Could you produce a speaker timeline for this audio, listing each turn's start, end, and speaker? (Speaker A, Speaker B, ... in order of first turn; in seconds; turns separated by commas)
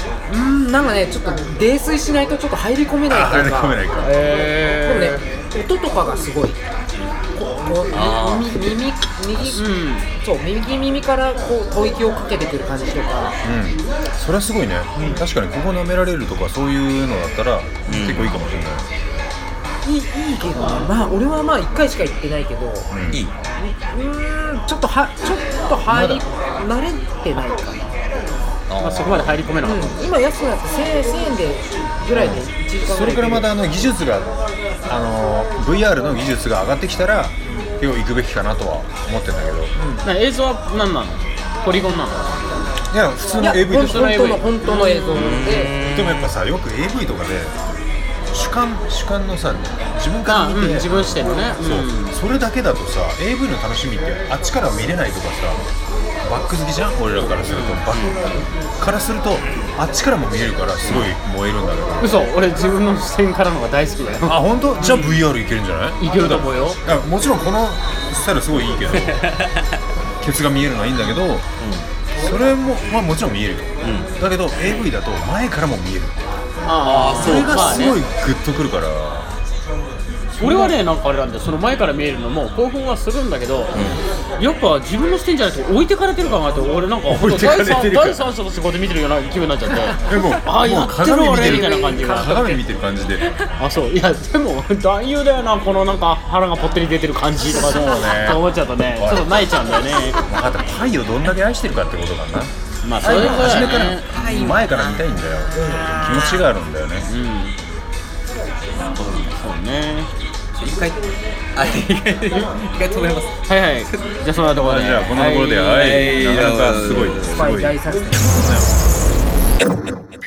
Speaker A: 0.3-6.6, Speaker B: 3.1-4.2, Speaker C: 4.0-5.2, Speaker A: 7.3-13.4, Speaker D: 7.9-8.8, Speaker C: 9.6-10.1, Speaker B: 13.4-18.9, Speaker A: 15.0-15.2, Speaker D: 17.9-18.5, Speaker A: 19.8-22.9, Speaker B: 22.9-23.2, Speaker A: 23.6-28.0, Speaker B: 25.9-26.2, Speaker D: 28.7-29.4, Speaker C: 28.8-30.0, Speaker A: 29.6-33.5, Speaker B: 32.1-34.3, Speaker B: 34.9-39.7, Speaker A: 39.8-40.1, Speaker C: 40.0-42.6, Speaker B: 42.9-44.5, Speaker A: 43.4-45.8, Speaker D: 44.6-46.4, Speaker B: 45.8-47.5, Speaker B: 48.3-55.6, Speaker C: 50.3-52.2, Speaker B: 56.2-62.2, Speaker C: 57.5-57.9, Speaker D: 57.9-58.3, Speaker D: 60.9-61.1, Speaker C: 62.0-64.4, Speaker B: 64.2-69.3, Speaker C: 66.0-66.8, Speaker D: 69.0-69.7, Speaker B: 70.2-71.5, Speaker D: 71.6-71.9, Speaker B: 72.2-76.2, Speaker D: 73.8-74.1, Speaker C: 76.7-78.0, Speaker D: 76.8-77.9, Speaker B: 77.2-79.3, Speaker B: 80.3-80.8, Speaker C: 80.4-83.8, Speaker D: 83.7-84.0, Speaker C: 84.4-92.6, Speaker B: 87.1-88.3, Speaker B: 90.0-93.3, Speaker A: 90.9-92.6, Speaker C: 93.6-100.2, Speaker B: 97.5-99.5, Speaker B: 100.2-107.1, Speaker C: 102.8-104.1, Speaker D: 103.1-106.5, Speaker C: 107.0-107.5, Speaker D: 109.0-109.3, Speaker C: 109.3-110.1, Speaker D: 110.6-111.0, Speaker D: 111.5-114.2, Speaker C: 113.5-116.1, Speaker B: 114.6-118.7, Speaker D: 115.7-117.5, Speaker A: 117.3-118.3